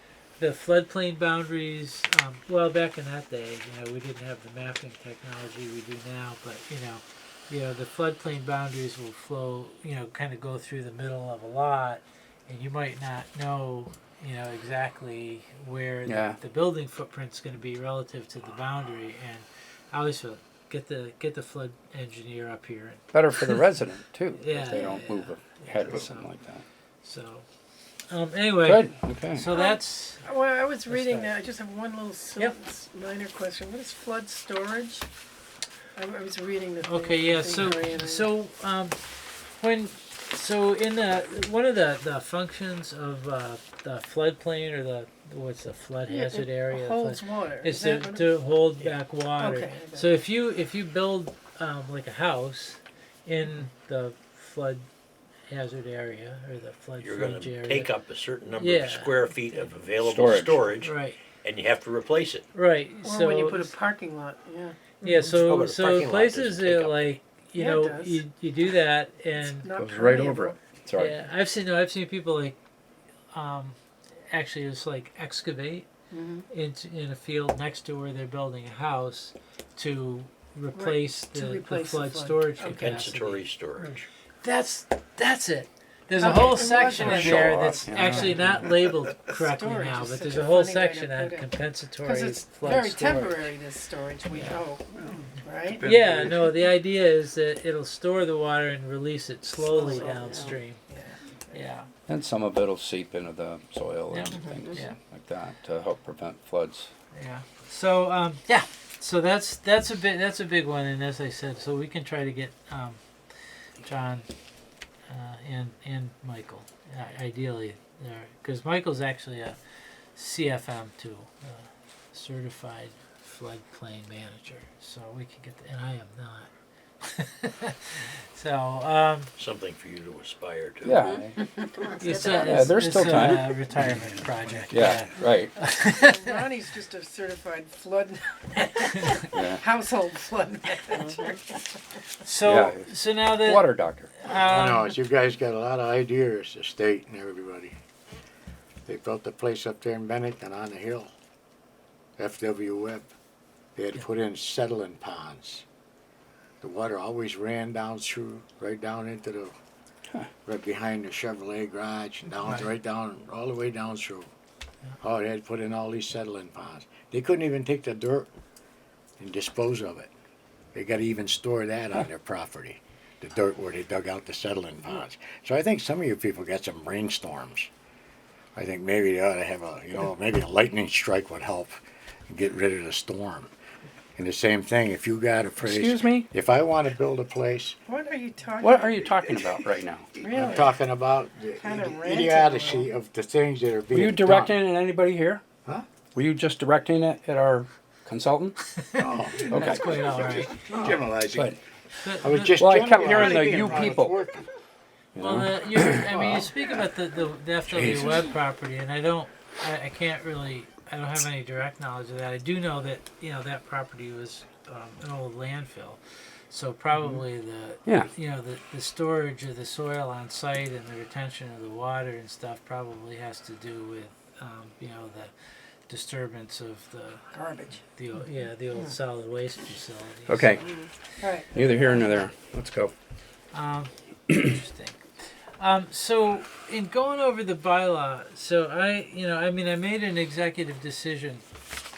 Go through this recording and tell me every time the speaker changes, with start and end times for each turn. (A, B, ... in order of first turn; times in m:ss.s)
0:00.4-0:23.6 A
0:16.1-0:16.4 B
0:23.1-0:26.6 B
0:24.4-0:26.3 A
0:27.0-0:27.5 A
0:28.1-0:30.3 A
0:28.6-0:29.5 B
0:29.5-0:35.1 C
0:30.9-0:31.3 A
0:36.0-0:38.3 C
0:36.8-0:54.8 A
0:46.1-0:48.3 C
0:49.4-0:50.1 C
0:55.5-0:57.9 A
0:57.0-1:02.4 D
0:58.5-0:59.2 A
1:00.0-1:00.8 B
1:00.8-1:01.2 A
1:02.5-1:03.7 A
1:03.0-1:05.4 C
1:05.0-1:09.7 A
1:05.2-1:07.1 D
1:07.6-1:08.2 C
1:09.4-1:10.6 C
1:09.7-1:11.2 B
1:11.0-1:12.6 A
1:13.3-1:13.8 A
1:14.3-1:15.9 A
1:16.1-1:16.5 C
1:16.5-1:23.5 A
1:20.7-1:23.1 C
1:22.6-1:24.1 D
1:24.4-1:33.4 A
1:26.2-1:27.8 C
1:27.0-1:28.7 B
1:29.3-1:35.8 C
1:34.3-1:34.6 A
1:35.8-1:36.4 B
1:35.8-1:40.8 A
1:39.7-1:41.2 C
1:41.5-1:41.9 A
1:42.1-1:46.9 B
1:44.1-1:45.0 A
1:47.1-1:53.0 A
1:53.8-1:54.3 A
1:55.1-1:59.6 A
2:00.2-2:06.5 A
2:07.0-2:09.3 A
2:09.4-2:11.0 D
2:10.8-2:11.4 B
2:12.0-2:16.3 A
2:12.3-2:13.6 B
2:14.7-2:15.6 B
2:15.7-2:21.7 C
2:19.3-2:19.6 B
2:22.2-2:24.9 A
2:22.4-2:24.1 B
2:24.3-2:27.8 E
2:28.9-2:31.1 E
2:32.2-2:33.1 E
2:33.8-2:35.6 E
2:36.6-2:39.6 E
2:40.4-2:44.3 E
2:45.0-2:48.3 E
2:49.2-2:50.1 E
2:50.7-2:57.7 E
2:58.6-3:01.8 E
3:02.3-3:03.5 E
3:04.2-3:07.8 E
3:05.6-3:06.3 B
3:07.9-3:09.3 C
3:08.6-3:10.1 B
3:10.2-3:10.8 C
3:10.2-3:14.6 E
3:11.6-3:12.9 C
3:13.9-3:15.4 B
3:16.2-3:18.6 B
3:18.8-3:20.6 A
3:19.0-3:21.5 E
3:19.5-3:19.9 B
3:20.7-3:21.6 B
3:22.0-3:23.7 A
3:22.2-3:24.5 E
3:22.6-3:24.2 B
3:25.2-3:26.4 B
3:25.2-3:45.3 A
3:27.7-3:28.3 E
3:45.9-3:47.3 A
3:47.3-3:47.8 C
3:47.9-3:50.7 A
3:50.3-3:50.7 B
3:51.2-3:51.5 C
3:51.5-3:52.9 B
3:53.5-3:55.0 A
3:55.6-4:01.4 A